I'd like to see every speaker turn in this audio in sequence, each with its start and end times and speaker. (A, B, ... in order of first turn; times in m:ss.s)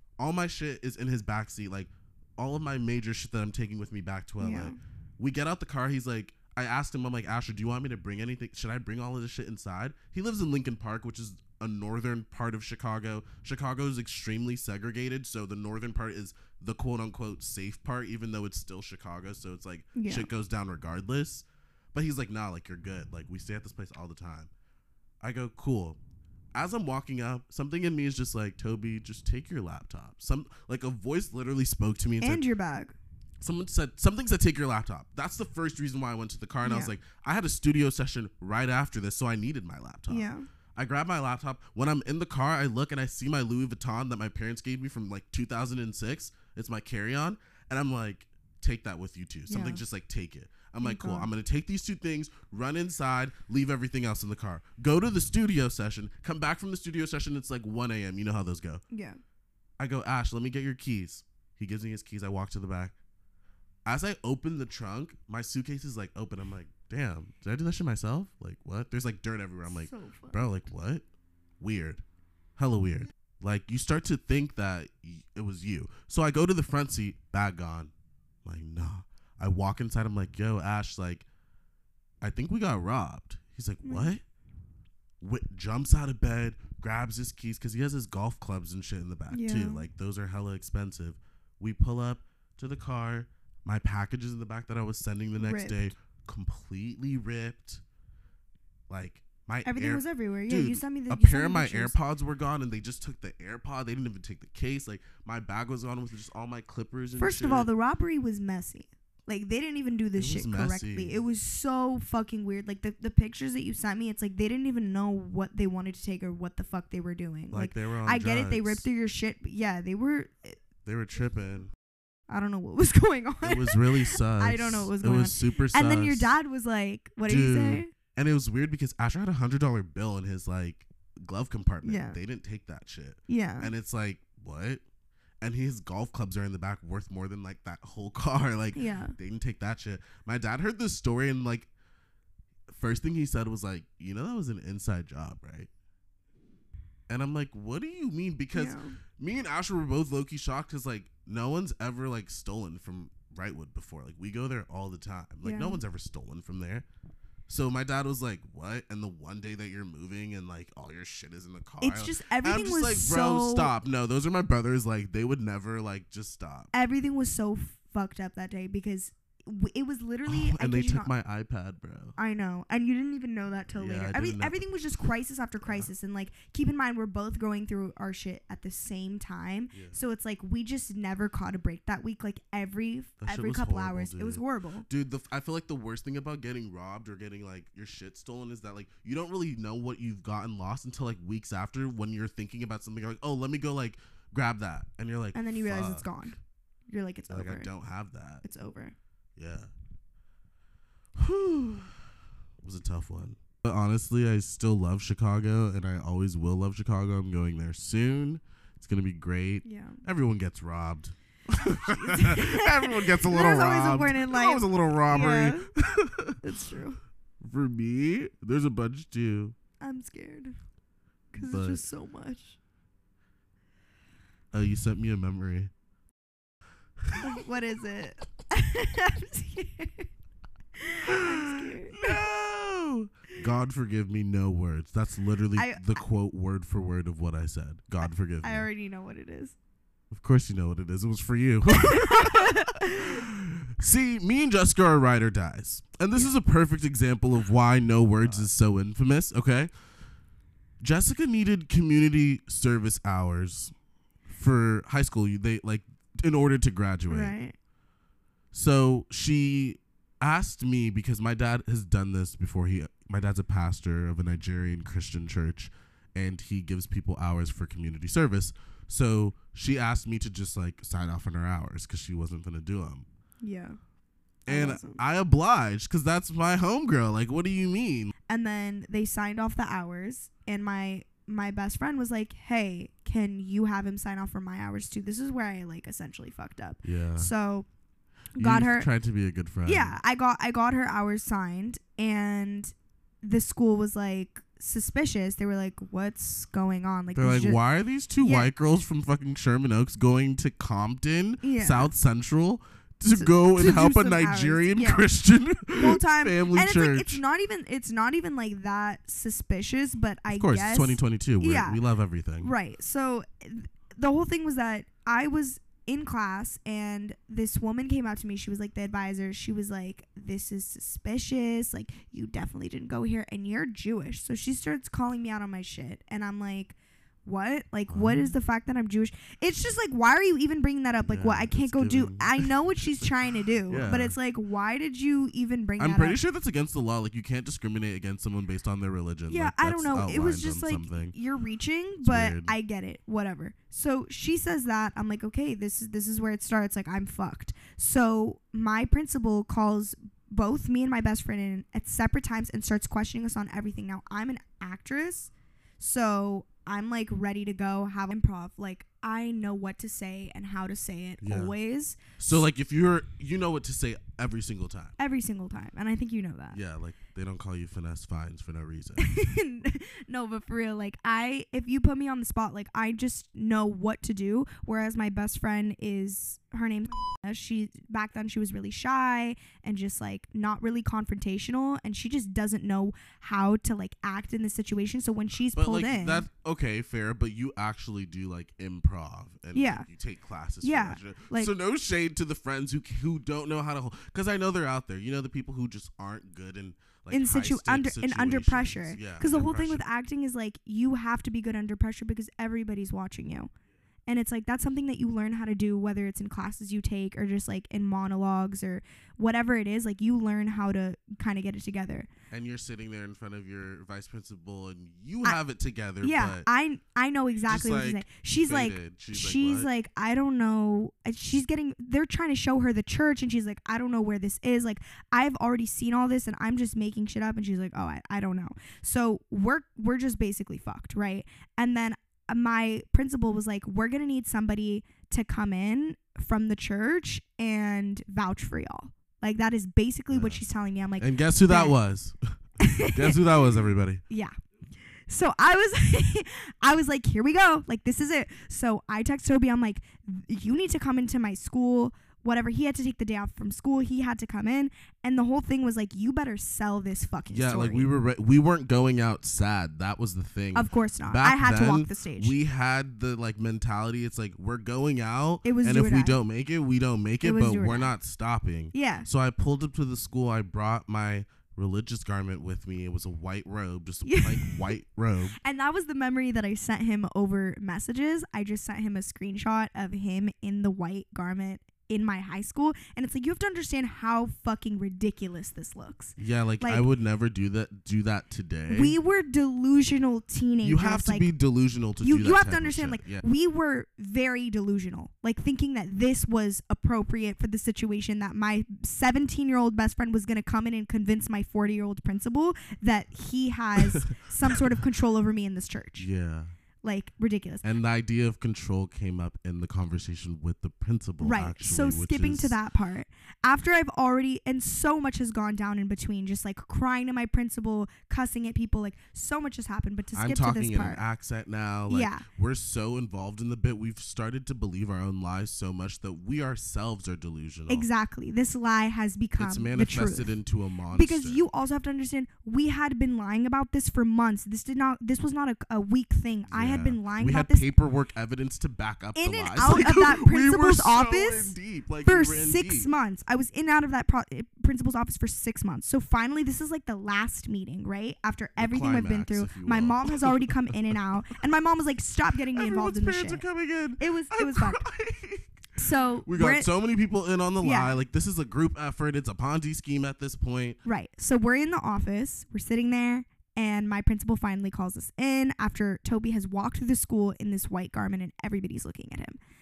0:00.2-0:24.5 A
0:04.4-0:04.8 B
0:19.9-0:20.3 B
0:25.2-0:26.0 A
0:26.5-0:32.4 A
0:32.2-0:33.0 B
0:33.4-0:58.8 A
0:36.6-0:36.9 B
0:40.1-0:40.4 B
0:49.5-0:49.8 B
0:50.8-0:51.3 B
0:58.9-0:59.2 B
0:59.8-1:02.9 A
1:03.8-1:11.0 A
1:09.6-1:10.4 B
1:11.6-1:12.0 A
1:12.6-1:17.9 A
1:18.4-1:21.2 A
1:22.2-1:24.2 A
1:23.8-1:24.2 B
1:25.2-1:37.8 A
1:29.3-1:29.9 B
1:35.4-1:35.9 B
1:38.9-1:47.7 A
1:39.6-1:42.0 B
1:47.2-2:00.6 B
1:50.2-1:51.2 A
1:57.5-1:58.8 A
2:00.8-2:01.7 A
2:02.3-2:07.9 B
2:03.4-2:06.4 A
2:07.2-2:14.8 A
2:11.8-2:12.2 B
2:13.3-2:13.7 B
2:15.4-2:21.7 A
2:18.7-2:19.1 B
2:22.7-2:25.7 A
2:27.1-2:36.8 A
2:28.5-2:29.0 B
2:35.4-2:35.8 B
2:37.5-2:46.7 A
2:41.8-2:43.7 B
2:46.7-2:51.1 B
2:50.2-2:52.2 A
2:52.2-3:04.9 B
2:53.8-2:54.6 A
2:55.6-2:55.9 A
2:59.7-3:00.0 A
3:03.2-3:16.1 A
3:15.3-3:17.7 B
3:17.3-3:18.4 A
3:18.4-3:18.9 B
3:19.4-3:19.7 A
3:21.2-3:21.9 A
3:22.6-3:36.4 A
3:29.6-3:30.0 B
3:31.8-3:35.7 B
3:36.4-3:37.0 B
3:37.4-3:39.5 A
3:39.8-3:40.6 B
3:41.3-3:42.6 B
3:41.4-3:41.8 A
3:44.5-3:45.7 A
3:47.2-3:50.1 B
3:50.8-3:52.1 B
3:51.1-3:58.7 A
3:55.6-3:56.0 B
3:58.4-3:59.6 B
4:00.1-4:09.7 A
4:01.7-4:03.2 B
4:10.8-4:13.7 A
4:14.3-4:17.4 A
4:17.1-4:17.6 B
4:18.5-4:33.0 A
4:33.4-4:33.8 B
4:34.4-4:38.1 A
4:34.5-4:35.0 B
4:38.3-4:47.7 B
4:46.8-4:47.3 A
4:48.4-4:48.9 B
4:48.4-4:50.0 A
4:49.6-4:57.6 B
4:57.1-5:07.2 A
4:58.2-4:58.5 B
5:01.4-5:01.9 B
5:03.1-5:05.0 B
5:05.7-5:11.8 B
5:10.3-5:12.5 A
5:12.4-5:36.2 B
5:27.9-5:28.3 A
5:31.0-5:33.0 A
5:33.7-5:34.2 A
5:35.8-5:41.1 A
5:39.3-6:02.4 B
5:42.0-5:42.5 A
6:01.2-6:01.5 A
6:02.2-6:04.9 A
6:05.0-6:06.6 B
6:06.5-6:09.1 A
6:09.0-6:26.3 B
6:25.5-6:39.8 A
6:29.5-6:29.9 B
6:30.6-6:31.5 B
6:37.1-6:43.5 B
6:44.1-6:52.1 B
6:52.3-6:56.5 A
6:56.0-7:21.8 B
6:57.5-6:59.7 A
7:20.1-7:20.4 A
7:21.0-7:22.2 A
7:22.6-7:23.2 B
7:22.8-7:24.0 A
7:25.1-7:37.9 B
7:37.3-7:55.4 A
7:40.5-7:42.4 B
7:45.4-7:46.2 B
7:47.2-7:47.9 B
7:48.7-7:49.1 B
7:54.0-7:54.8 B
7:55.4-8:06.8 B
8:06.2-8:09.0 A
8:08.7-8:11.3 B
8:10.6-8:13.2 A
8:12.0-8:26.1 B
8:23.8-8:24.6 A
8:26.0-8:26.5 A
8:26.8-8:27.6 B
8:27.6-8:32.6 A
8:31.2-8:41.0 B
8:40.1-8:47.9 A
8:41.9-8:42.2 B
8:47.7-8:50.3 B
8:49.4-8:51.5 A
8:50.9-8:57.7 B
8:56.5-9:02.9 A
8:59.1-9:13.4 B
9:08.6-9:10.5 A
9:12.5-9:15.7 A
9:14.0-9:14.8 B
9:15.8-9:16.7 B
9:16.2-9:20.8 A
9:17.6-9:18.0 B
9:20.8-9:29.4 B